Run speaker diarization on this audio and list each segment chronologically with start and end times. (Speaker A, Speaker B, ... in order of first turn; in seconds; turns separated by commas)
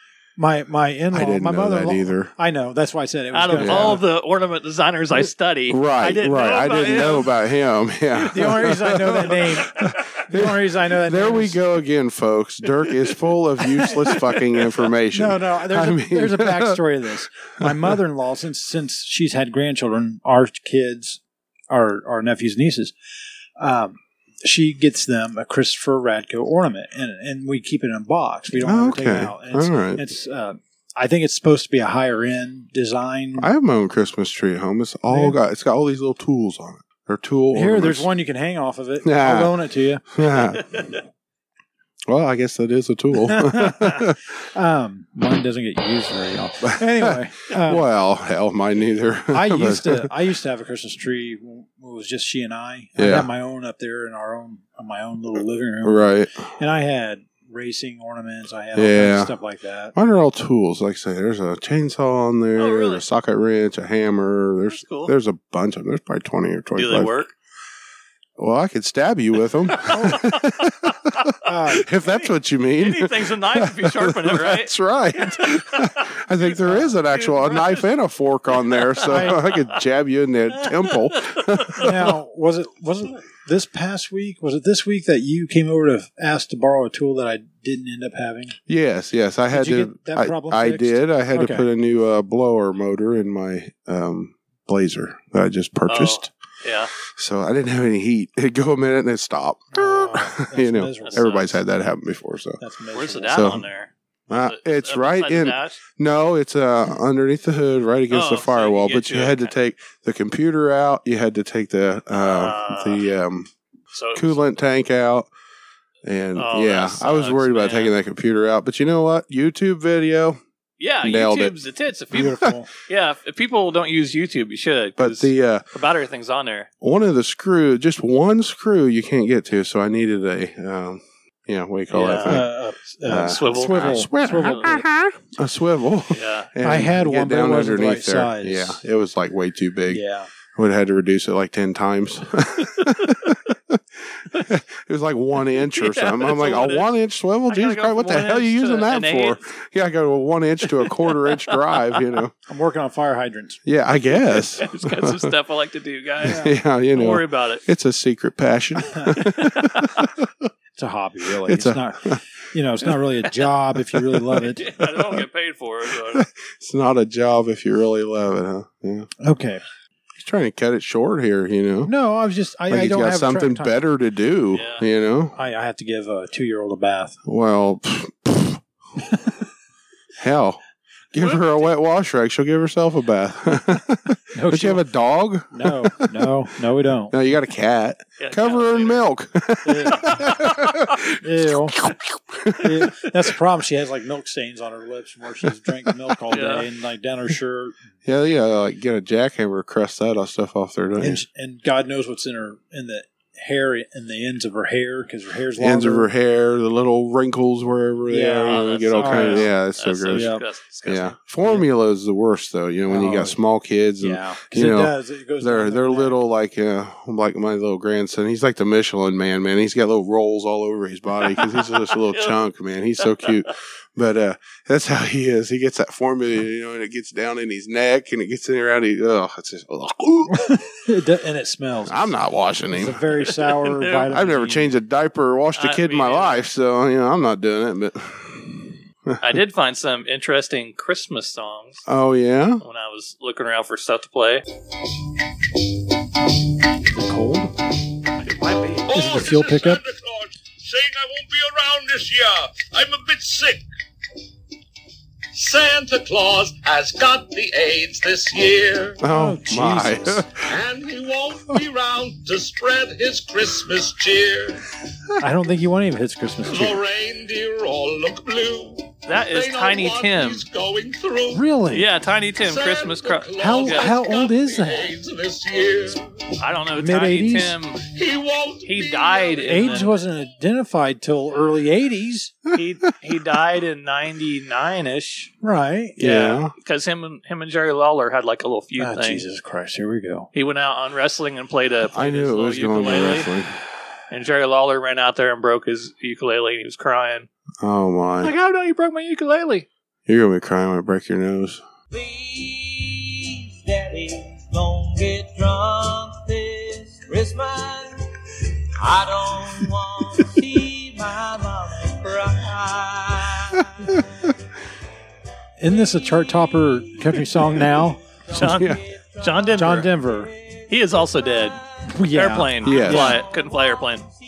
Speaker A: 0.4-4.0, Speaker B: 1.1-2.3, Speaker C: 3.3-7.3, Speaker B: 3.5-4.0, Speaker B: 5.7-16.8, Speaker A: 8.2-11.6, Speaker A: 15.1-22.9, Speaker B: 17.6-17.9, Speaker A: 23.6-33.5, Speaker B: 28.5-30.0, Speaker B: 33.4-38.1, Speaker A: 35.1-35.4, Speaker A: 37.5-40.0, Speaker B: 39.0-39.6, Speaker B: 40.1-40.8, Speaker B: 42.1-44.2, Speaker A: 43.1-47.8, Speaker B: 46.6-50.1, Speaker A: 49.3-59.9, Speaker B: 53.0-53.3, Speaker B: 55.8-56.5, Speaker B: 58.7-59.3, Speaker B: 59.9-67.1, Speaker C: 62.6-63.0, Speaker C: 64.7-65.1, Speaker C: 66.8-67.3, Speaker B: 68.4-82.1, Speaker C: 69.8-70.9, Speaker A: 69.9-70.3, Speaker A: 71.4-71.8, Speaker C: 72.1-77.9, Speaker A: 76.7-76.9, Speaker C: 78.5-79.6, Speaker A: 79.0-79.4, Speaker C: 80.6-81.8, Speaker A: 81.8-88.6, Speaker B: 88.7-96.3, Speaker A: 89.5-91.7, Speaker C: 95.9-96.9, Speaker B: 97.1-102.6, Speaker A: 99.7-101.3, Speaker C: 101.0-101.5, Speaker A: 102.6-103.5, Speaker C: 102.9-105.8, Speaker B: 103.3-103.7, Speaker B: 104.3-113.5, Speaker C: 108.1-109.5, Speaker C: 112.2-113.0, Speaker C: 113.9-114.4, Speaker B: 114.1-115.3, Speaker B: 116.0-120.4, Speaker C: 116.3-117.9, Speaker C: 120.8-126.7, Speaker B: 121.0-121.5, Speaker A: 122.1-122.7, Speaker B: 125.0-125.6, Speaker B: 126.8-132.5, Speaker C: 131.9-132.5, Speaker A: 132.2-134.8, Speaker B: 133.1-140.0, Speaker C: 133.1-134.7, Speaker C: 136.1-136.5, Speaker A: 136.6-138.8, Speaker A: 139.9-140.3, Speaker B: 140.5-152.3, Speaker C: 145.7-146.9, Speaker C: 147.5-149.4, Speaker C: 150.7-152.0, Speaker A: 152.5-153.6, Speaker B: 153.6-155.3, Speaker C: 154.3-157.6, Speaker B: 156.2-160.5, Speaker A: 156.3-156.5, Speaker C: 159.2-160.0, Speaker A: 160.8-164.7, Speaker B: 161.4-162.2, Speaker C: 164.4-166.2, Speaker B: 164.8-165.2, Speaker B: 166.0-169.1, Speaker A: 169.2-169.6, Speaker B: 170.2-171.9, Speaker A: 171.8-173.7, Speaker B: 172.7-175.3, Speaker C: 174.5-174.8, Speaker A: 175.3-177.2, Speaker B: 177.2-178.6, Speaker B: 180.2-180.6, Speaker B: 181.1-186.3, Speaker C: 181.2-181.7, Speaker A: 184.3-184.8, Speaker A: 185.5-187.1, Speaker B: 187.1-193.1, Speaker C: 188.2-189.0, Speaker A: 189.6-190.2, Speaker C: 190.1-190.8, Speaker A: 191.2-191.8, Speaker A: 192.6-197.8, Speaker B: 195.8-196.1, Speaker C: 196.3-196.7, Speaker B: 198.0-201.2, Speaker A: 201.0-206.1, Speaker B: 205.6-210.3, Speaker A: 208.1-209.5, Speaker C: 208.4-211.2, Speaker A: 210.1-210.4, Speaker B: 210.8-230.8, Speaker A: 212.9-213.4, Speaker A: 214.0-216.2, Speaker C: 221.3-222.3, Speaker C: 223.0-223.4, Speaker A: 230.3-232.1, Speaker B: 231.9-233.0, Speaker A: 232.7-234.7, Speaker C: 233.4-234.0, Speaker B: 234.1-239.2, Speaker C: 235.6-236.4, Speaker C: 239.2-241.8, Speaker B: 241.8-242.6, Speaker C: 242.6-244.4, Speaker A: 246.9-247.5, Speaker C: 248.2-248.9, Speaker D: 248.9-253.6, Speaker A: 248.9-249.8, Speaker D: 255.3-259.0, Speaker B: 259.0-260.5, Speaker A: 259.1-260.2, Speaker D: 260.4-264.6, Speaker A: 265.2-266.8, Speaker D: 266.4-271.4, Speaker C: 269.1-270.4, Speaker A: 271.3-271.9, Speaker C: 271.7-273.9, Speaker D: 272.4-276.0, Speaker A: 273.4-275.0, Speaker C: 276.4-277.8, Speaker A: 276.8-277.5, Speaker D: 277.8-279.6, Speaker C: 278.6-279.9, Speaker A: 279.4-282.3, Speaker C: 282.5-285.3, Speaker A: 285.4-286.0, Speaker B: 286.0-286.5, Speaker C: 286.0-289.2, Speaker A: 288.8-290.3, Speaker C: 290.3-293.3, Speaker B: 291.9-293.6, Speaker C: 294.1-297.3, Speaker B: 297.6-298.3, Speaker C: 298.2-299.7, Speaker B: 300.1-301.6, Speaker E: 301.9-308.0, Speaker E: 308.8-314.1, Speaker A: 315.6-318.0, Speaker E: 317.0-321.6, Speaker B: 318.3-318.8, Speaker C: 318.3-319.9, Speaker A: 319.5-320.3, Speaker C: 320.7-321.6, Speaker A: 321.9-323.2, Speaker C: 322.1-324.1, Speaker B: 322.6-323.2, Speaker E: 322.9-324.1